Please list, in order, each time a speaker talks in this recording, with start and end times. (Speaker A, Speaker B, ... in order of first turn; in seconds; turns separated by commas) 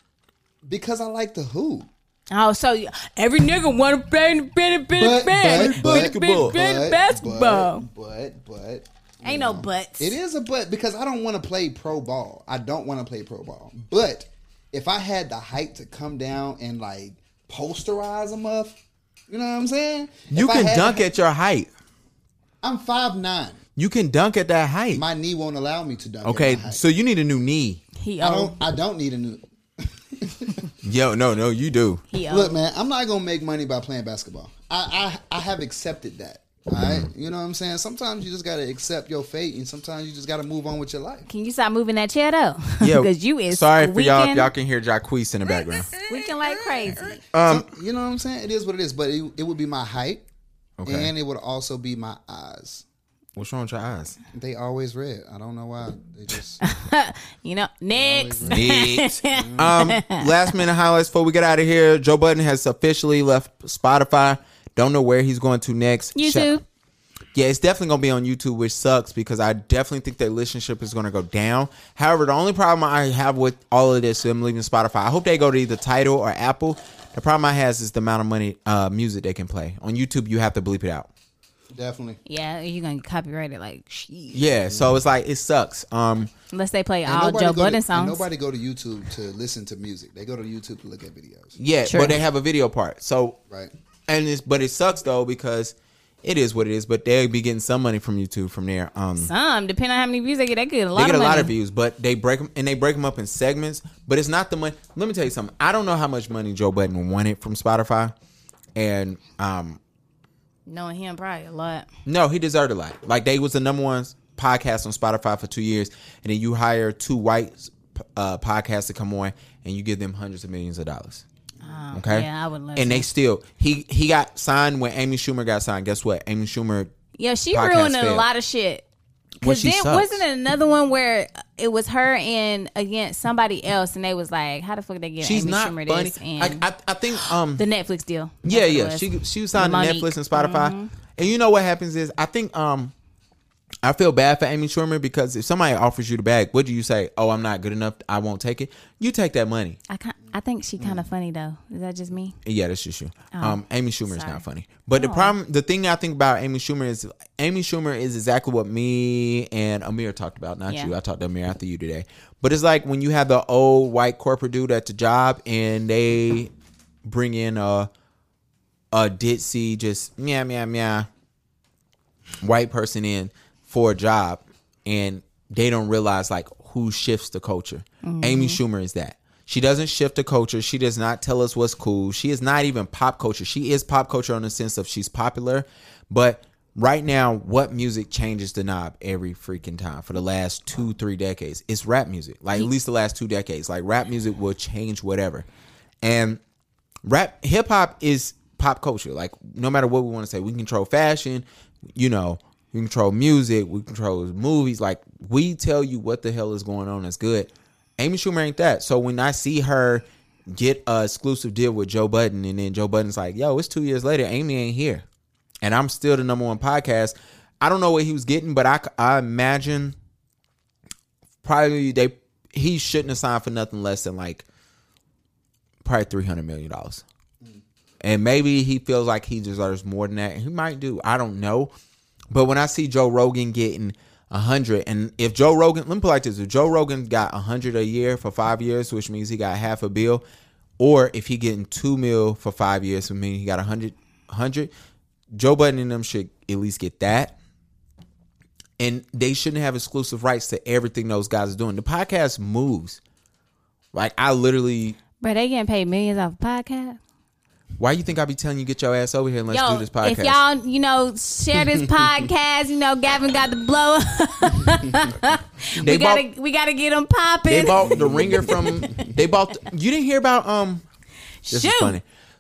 Speaker A: 0.7-1.9, Speaker B: 2.3-7.9, Speaker A: 4.9-18.8, Speaker C: 5.5-6.6, Speaker B: 9.2-10.2, Speaker A: 19.3-21.1, Speaker C: 20.3-21.7, Speaker A: 22.6-23.6, Speaker C: 23.8-25.0, Speaker A: 24.9-26.8, Speaker C: 26.2-27.8, Speaker B: 28.0-28.6, Speaker A: 28.2-30.7, Speaker C: 30.8-32.0, Speaker B: 32.1-32.6, Speaker A: 32.3-41.3, Speaker C: 36.8-37.1, Speaker B: 41.3-44.5, Speaker C: 42.8-45.9, Speaker A: 45.7-50.3, Speaker B: 46.0-47.2, Speaker C: 47.3-47.7, Speaker C: 50.8-51.1, Speaker A: 50.9-52.9, Speaker C: 53.4-54.2, Speaker A: 54.3-56.6, Speaker B: 56.6-60.5, Speaker A: 57.9-58.7, Speaker C: 58.5-66.5, Speaker A: 59.3-59.8, Speaker B: 66.2-66.6, Speaker C: 67.3-81.1, Speaker A: 81.7-82.2, Speaker B: 82.3-84.5, Speaker C: 84.3-86.3, Speaker B: 86.5-88.2, Speaker A: 87.1-91.5, Speaker C: 91.6-93.4, Speaker B: 91.8-92.2, Speaker C: 94.1-99.3, Speaker B: 99.2-101.5, Speaker C: 101.0-108.1, Speaker C: 108.8-109.8, Speaker B: 110.7-111.9, Speaker C: 112.1-121.2, Speaker B: 121.6-123.1, Speaker C: 121.9-126.9, Speaker B: 127.2-128.9, Speaker C: 127.5-128.3, Speaker C: 129.4-130.2, Speaker B: 129.4-136.6, Speaker C: 135.2-137.6, Speaker B: 137.2-140.9, Speaker C: 138.4-142.9, Speaker C: 143.8-149.8, Speaker B: 149.9-152.4, Speaker A: 150.8-151.1, Speaker C: 152.4-166.5, Speaker B: 153.3-155.3, Speaker B: 160.7-160.9, Speaker C: 167.1-167.9, Speaker C: 168.9-171.1, Speaker C: 172.4-195.5, Speaker B: 178.0-178.6, Speaker C: 196.0-196.4, Speaker C: 197.0-215.0, Speaker C: 215.6-219.9, Speaker C: 221.4-224.4, Speaker C: 225.8-227.0, Speaker C: 228.0-231.7, Speaker C: 232.3-240.2, Speaker C: 240.8-244.7, Speaker C: 245.3-247.3, Speaker C: 248.8-253.0, Speaker C: 253.9-255.0, Speaker B: 255.2-257.0, Speaker C: 257.8-260.4, Speaker B: 259.5-269.1, Speaker C: 265.8-266.2, Speaker C: 267.5-270.8, Speaker A: 267.8-269.1, Speaker B: 271.4-272.0, Speaker C: 271.5-272.0